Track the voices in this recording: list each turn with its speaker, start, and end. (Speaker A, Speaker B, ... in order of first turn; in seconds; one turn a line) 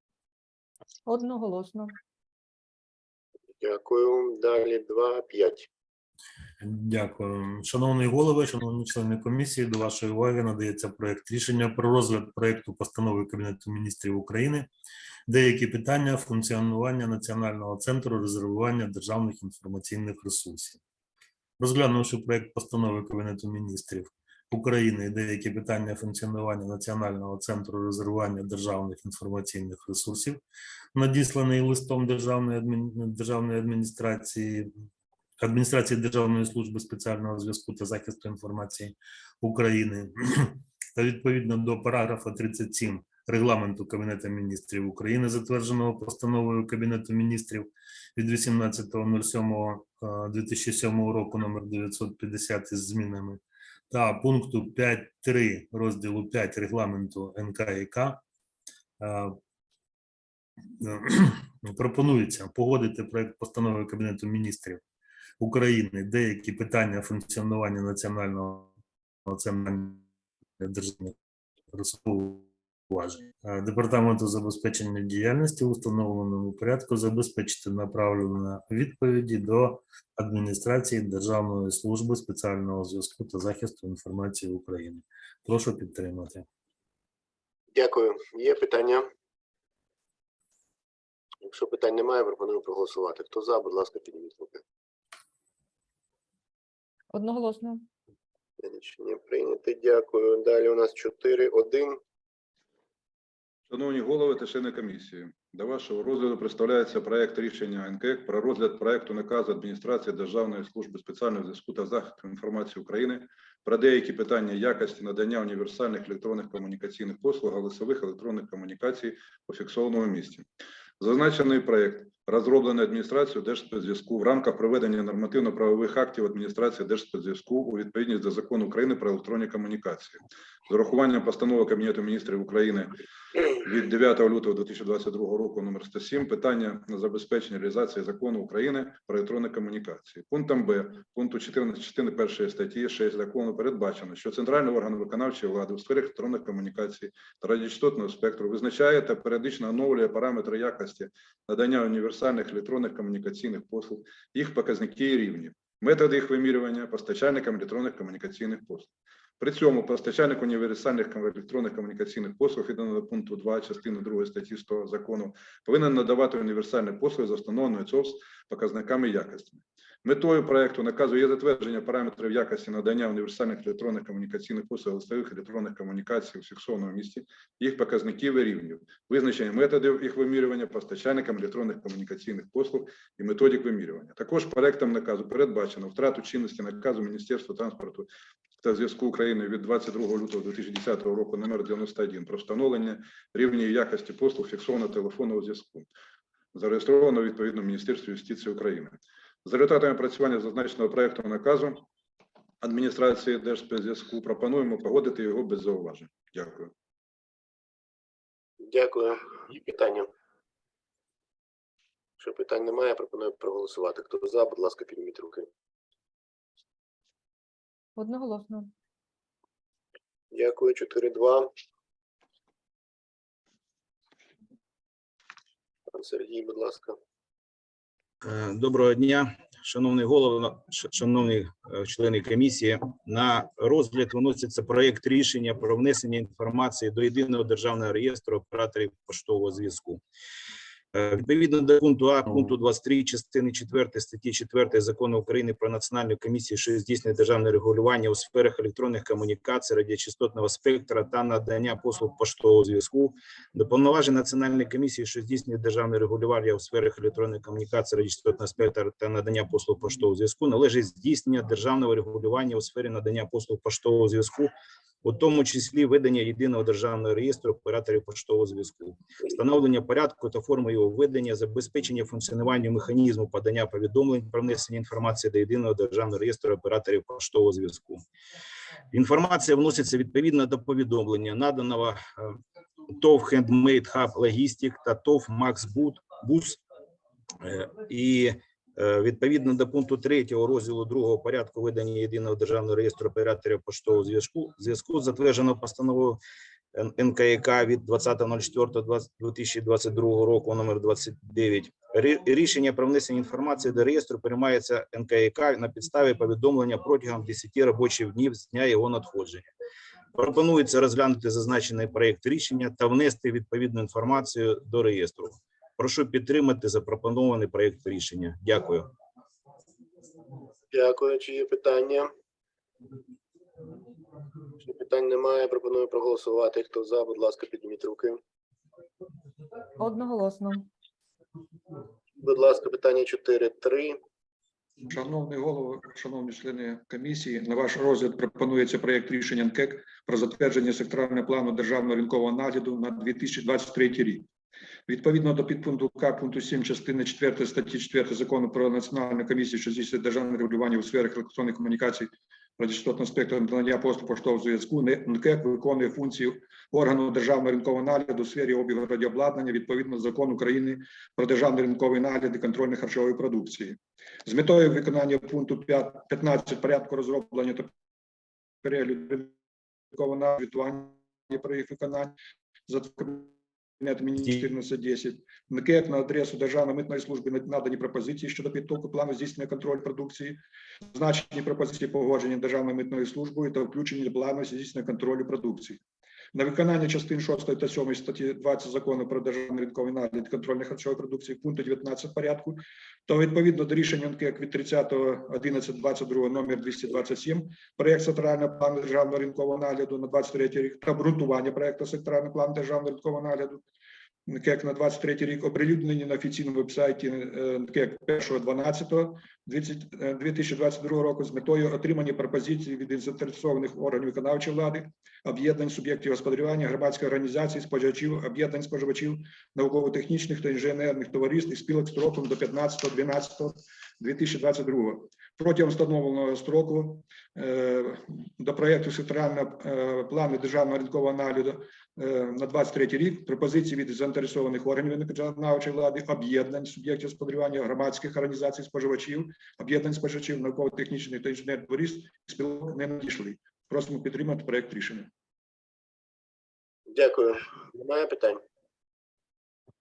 Speaker A: 1.1-1.9
Speaker B: 3.6-5.7
Speaker C: 6.6-14.7
Speaker C: 15.3-20.8
Speaker C: 21.6-30.4
Speaker C: 30.9-34.7
Speaker C: 35.4-58.2
Speaker C: 59.0-59.4
Speaker C: 60.8-64.8
Speaker C: 65.4-68.7
Speaker C: 69.3-70.0
Speaker C: 70.6-71.2
Speaker C: 71.7-86.5
Speaker B: 87.8-89.0
Speaker B: 91.5-94.6
Speaker A: 97.1-97.8
Speaker B: 98.7-102.0
Speaker D: 103.7-120.5
Speaker D: 121.0-132.9
Speaker D: 133.6-188.1
Speaker D: 188.6-195.9
Speaker D: 196.5-201.8
Speaker D: 202.6-206.7
Speaker B: 208.7-210.1
Speaker B: 212.3-215.5
Speaker A: 218.0-218.7
Speaker B: 220.4-221.5
Speaker B: 226.0-226.9
Speaker E: 228.2-240.0
Speaker E: 240.9-264.5
Speaker E: 265.0-278.0
Speaker E: 278.9-282.4
Speaker E: 282.9-286.6
Speaker E: 287.4-296.2
Speaker E: 296.8-309.5
Speaker E: 310.1-318.9
Speaker B: 320.7-322.1
Speaker B: 324.7-328.2
Speaker A: 329.8-330.7
Speaker B: 332.3-334.0
Speaker F: 334.9-344.2
Speaker F: 344.9-352.1
Speaker F: 352.6-363.7
Speaker F: 364.3-367.6
Speaker F: 368.6-369.2
Speaker F: 370.0-372.1
Speaker F: 372.7-373.2
Speaker F: 373.8-380.4
Speaker F: 380.9-385.8
Speaker F: 386.3-392.5
Speaker F: 393.1-403.6
Speaker F: 404.4-445.1
Speaker B: 446.9-448.4